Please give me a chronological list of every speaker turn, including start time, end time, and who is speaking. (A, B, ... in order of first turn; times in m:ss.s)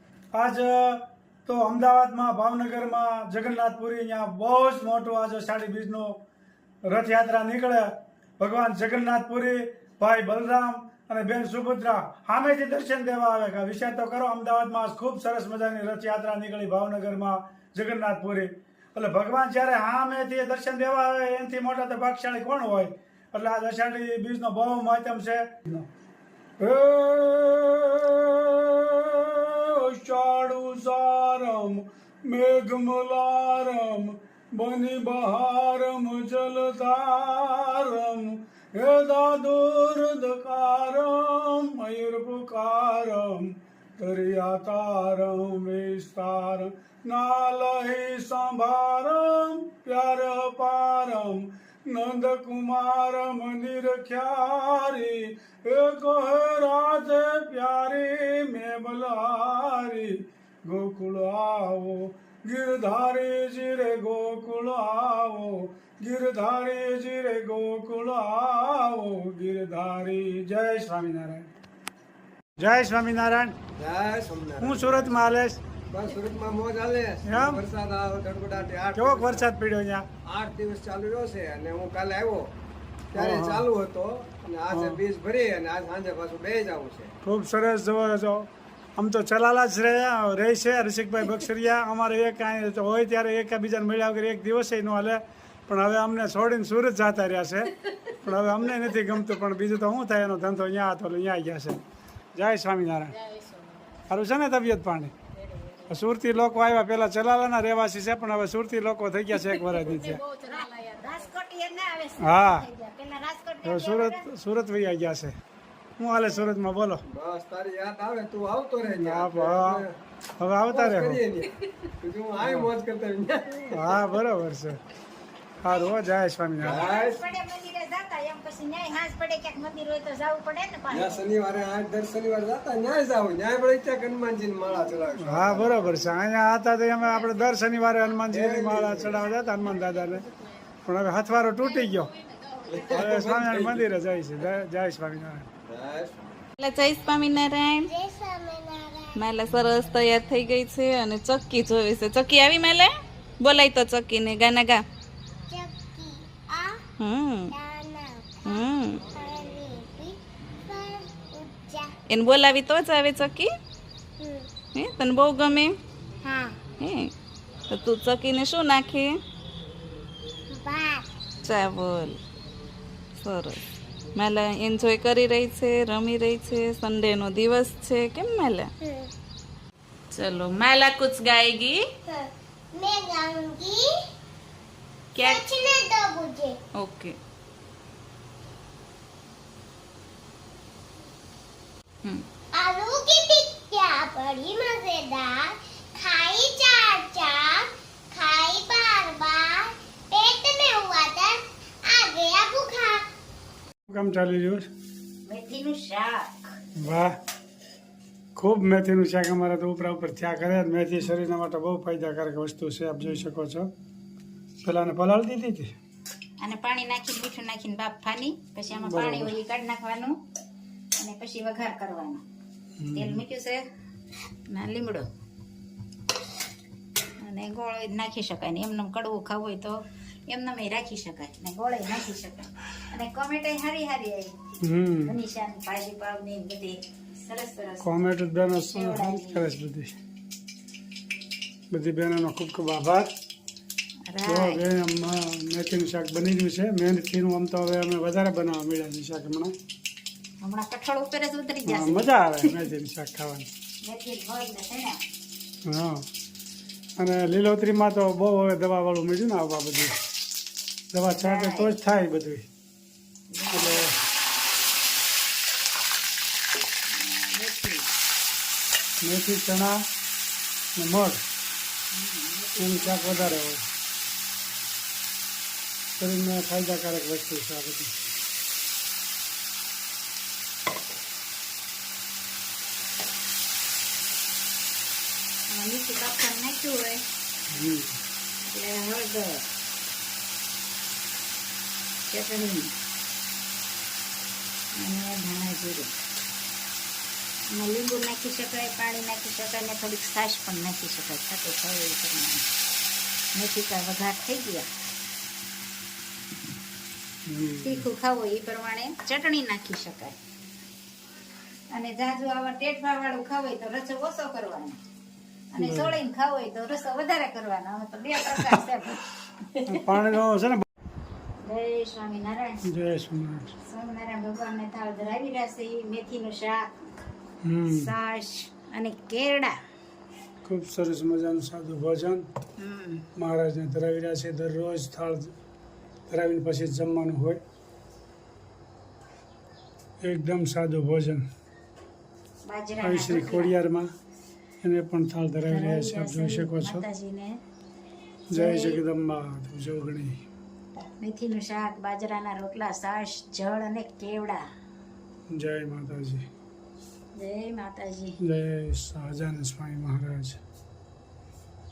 0:00.3-0:06.2 A
0:06.8-0:07.9 A
0:08.4-0:25.9 A
0:26.6-0:29.3 A
0:29.8-1:11.5 A
1:12.6-1:13.6 A
1:13.8-1:15.1 B
1:14.6-1:15.6 A
1:15.9-1:19.5 B
1:17.2-1:17.6 A
1:18.9-1:20.0 A
1:20.2-1:22.5 B
1:23.1-1:27.1 B
1:23.2-1:23.6 A
1:24.7-1:25.0 A
1:27.2-1:41.8 A
1:42.3-1:43.2 A
1:44.1-1:45.1 A
1:45.9-1:50.2 A
1:50.5-1:54.2 C
1:52.2-1:52.6 A
1:53.6-1:55.3 A
1:56.0-1:57.0 A
1:56.2-1:56.5 C
1:57.1-1:59.8 B
1:58.9-1:59.8 A
2:00.4-2:01.2 A
2:00.7-2:03.9 B
2:02.4-2:02.7 A
2:03.7-2:04.8 A
2:05.6-2:06.8 A
2:06.6-2:11.3 C
2:06.6-2:07.2 B
2:10.9-2:16.0 B
2:15.2-2:20.2 A
2:18.3-2:19.1 B
2:20.8-2:22.1 A
2:22.7-2:23.8 B
2:22.9-2:25.5 A
2:25.6-2:26.3 B
2:26.6-2:27.9 D
2:27.9-2:29.2 E
2:29.2-2:34.8 D
2:35.5-2:36.8 E
2:37.0-2:37.5 D
2:37.5-2:41.9 E
2:38.4-2:39.0 D
2:42.1-2:43.5 D
2:44.2-2:44.5 E
2:44.7-2:45.8 D
2:46.2-2:46.6 E
2:46.8-2:47.1 D
2:47.7-2:49.2 D
2:50.5-2:51.0 E
2:51.4-2:52.2 D
2:53.2-2:53.6 D
2:54.2-2:58.7 D
2:58.8-2:59.1 E
3:00.1-3:01.8 D
3:02.0-3:03.8 E
3:05.1-3:05.5 D
3:05.2-3:06.6 E
3:06.8-3:07.1 D
3:12.5-3:23.0 E
3:23.9-3:24.7 A
3:25.3-3:26.5 C
3:26.8-3:27.1 A
3:28.4-3:33.7 A
3:34.6-3:35.7 A
3:36.4-3:40.1 C
3:38.7-3:39.3 A
3:41.0-3:42.2 C
3:42.8-3:43.2 A
3:42.9-3:43.6 C
3:44.5-3:45.0 C
3:47.2-3:54.3 C
3:54.6-3:55.2 A
3:55.0-3:57.9 C
3:57.8-3:59.9 A
3:58.7-3:59.5 C
4:01.7-4:03.1 A
4:04.1-4:04.6 C
4:04.2-4:09.5 A
4:10.4-4:12.1 C
4:11.6-4:13.5 A
4:13.8-4:15.0 C
4:15.6-4:16.0 A
4:17.0-4:19.9 A
4:20.9-4:22.4 A
4:21.2-4:21.8 C
4:23.3-4:23.9 C
4:23.5-4:23.9 A
4:26.9-4:27.9 C
4:29.0-4:29.8 A
4:30.8-4:31.2 A
4:31.9-4:33.4 C
4:32.6-4:33.6 A
4:36.0-4:37.9 A
4:45.5-4:47.0 C
4:47.5-4:48.0 A
4:48.5-4:49.4 C
4:52.1-4:52.7 C
4:54.8-4:55.9 C
4:57.5-5:02.4 C
5:03.3-5:04.7 C
5:07.3-5:07.9 A
5:07.6-5:10.1 C
5:11.7-5:14.8 C
5:15.5-5:19.0 C
5:15.6-5:16.0 A
5:18.3-5:18.6 A
5:19.7-5:20.6 A
5:21.4-5:22.6 C
5:22.6-5:23.5 A
5:23.6-5:26.7 C
5:27.4-5:27.9 A
5:27.7-5:29.5 C
5:30.4-5:32.2 A
5:32.6-5:33.0 C
5:33.2-5:35.3 A
5:36.1-5:37.4 A
5:40.0-5:41.2 A
5:42.5-5:43.5 C
5:42.8-5:43.9 A
5:44.6-5:46.8 A
5:45.5-5:47.4 C
5:48.3-5:50.2 A
5:48.3-5:48.8 C
5:50.8-5:54.4 C
5:55.3-5:56.2 A
5:57.2-5:58.2 C
5:58.2-6:00.4 A